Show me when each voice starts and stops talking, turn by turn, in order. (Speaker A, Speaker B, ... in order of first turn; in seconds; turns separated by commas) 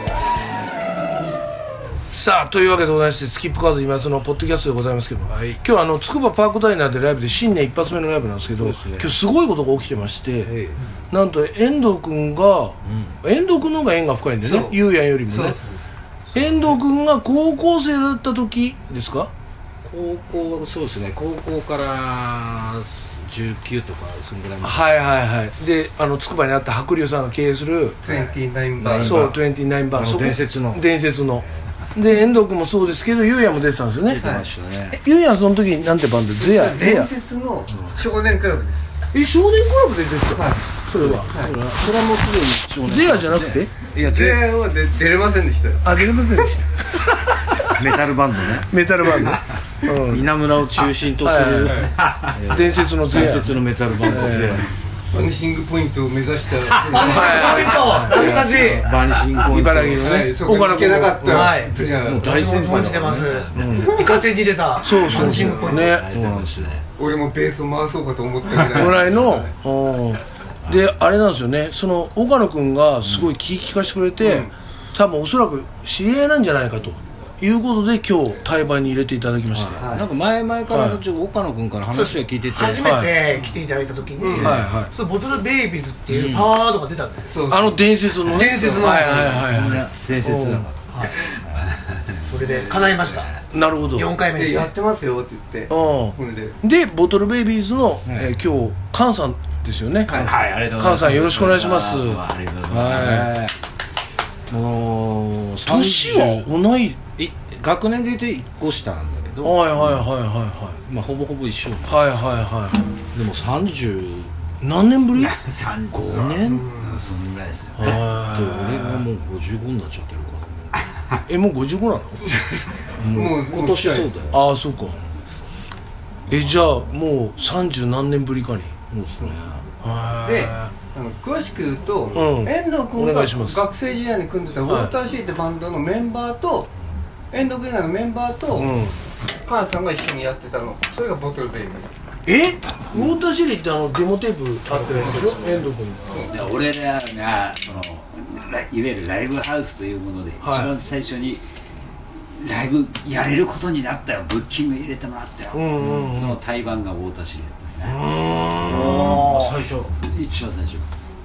Speaker A: 2.1-10.5, Speaker B: 5.3-5.6, Speaker B: 8.6-9.1, Speaker B: 10.4-10.8, Speaker A: 11.1-15.6, Speaker B: 12.8-13.2, Speaker C: 14.4-15.9, Speaker B: 16.3-16.8, Speaker A: 16.3-19.3, Speaker B: 19.8-24.9, Speaker A: 24.6-28.0, Speaker C: 28.0-29.3, Speaker B: 28.8-30.8, Speaker A: 29.0-34.2, Speaker B: 34.0-35.0, Speaker C: 34.2-34.5, Speaker A: 34.9-37.1, Speaker C: 36.4-38.9, Speaker B: 37.7-37.9, Speaker A: 39.1-41.3, Speaker C: 40.3-40.7, Speaker B: 41.0-44.5, Speaker C: 41.2-41.5, Speaker A: 42.8-43.8, Speaker C: 44.0-45.9, Speaker A: 45.8-47.9, Speaker B: 47.6-48.7, Speaker A: 48.5-50.3, Speaker B: 49.9-54.7, Speaker A: 51.2-51.9, Speaker C: 51.7-52.0, Speaker D: 52.0-52.6, Speaker A: 52.5-54.6, Speaker C: 55.1-58.7, Speaker D: 56.6-57.1, Speaker E: 56.9-58.9, Speaker A: 57.0-58.7, Speaker B: 57.9-60.3, Speaker A: 59.4-61.5, Speaker C: 60.0-62.6, Speaker E: 61.2-66.0, Speaker B: 61.4-63.5, Speaker D: 63.0-64.2, Speaker A: 63.5-64.0, Speaker C: 63.8-64.2, Speaker A: 64.8-66.7, Speaker B: 65.1-66.8, Speaker D: 65.2-66.8, Speaker C: 67.0-69.5, Speaker A: 68.7-79.8, Speaker B: 73.0-73.3, Speaker C: 74.2-74.5, Speaker B: 79.5-83.0, Speaker C: 79.8-80.1, Speaker A: 80.7-81.0, Speaker E: 81.9-87.5, Speaker A: 82.8-83.2, Speaker C: 83.3-83.6, Speaker C: 84.2-84.6, Speaker B: 84.3-84.7, Speaker A: 84.4-84.9, Speaker B: 86.1-86.5, Speaker C: 87.3-89.3, Speaker A: 87.5-91.1, Speaker E: 88.3-89.4, Speaker B: 89.2-91.0, Speaker D: 89.4-93.4, Speaker E: 92.2-93.3, Speaker A: 93.5-94.2, Speaker E: 93.9-94.7, Speaker C: 94.3-96.5, Speaker A: 95.7-103.4, Speaker B: 98.0-98.3, Speaker C: 100.0-100.4, Speaker B: 100.1-100.5, Speaker D: 100.2-103.4, Speaker B: 102.7-103.5, Speaker B: 104.5-106.5, Speaker A: 105.6-107.0, Speaker B: 107.2-110.0, Speaker A: 109.4-110.8, Speaker B: 110.8-112.0, Speaker A: 111.8-112.8, Speaker B: 113.1-114.3, Speaker A: 114.6-115.4, Speaker D: 115.2-118.0, Speaker A: 115.9-116.7, Speaker C: 116.4-117.1, Speaker A: 117.8-119.1, Speaker B: 117.8-120.5, Speaker D: 120.8-121.2, Speaker A: 121.2-122.2, Speaker B: 123.0-124.5, Speaker C: 123.1-124.2, Speaker A: 124.3-125.0, Speaker A: 126.3-128.7, Speaker B: 126.3-126.6, Speaker B: 128.9-129.7, Speaker A: 129.8-130.7, Speaker C: 130.2-136.7, Speaker A: 132.1-133.6, Speaker A: 134.6-134.9, Speaker C: 137.3-138.7, Speaker A: 138.5-139.0, Speaker C: 139.4-141.9, Speaker A: 142.2-146.3, Speaker C: 144.8-146.3, Speaker D: 146.3-151.4, Speaker A: 150.4-150.7, Speaker D: 152.4-158.0, Speaker A: 155.5-156.4, Speaker A: 157.8-159.3, Speaker B: 158.6-160.0, Speaker D: 158.7-159.0, Speaker E: 158.7-159.6, Speaker D: 160.1-160.8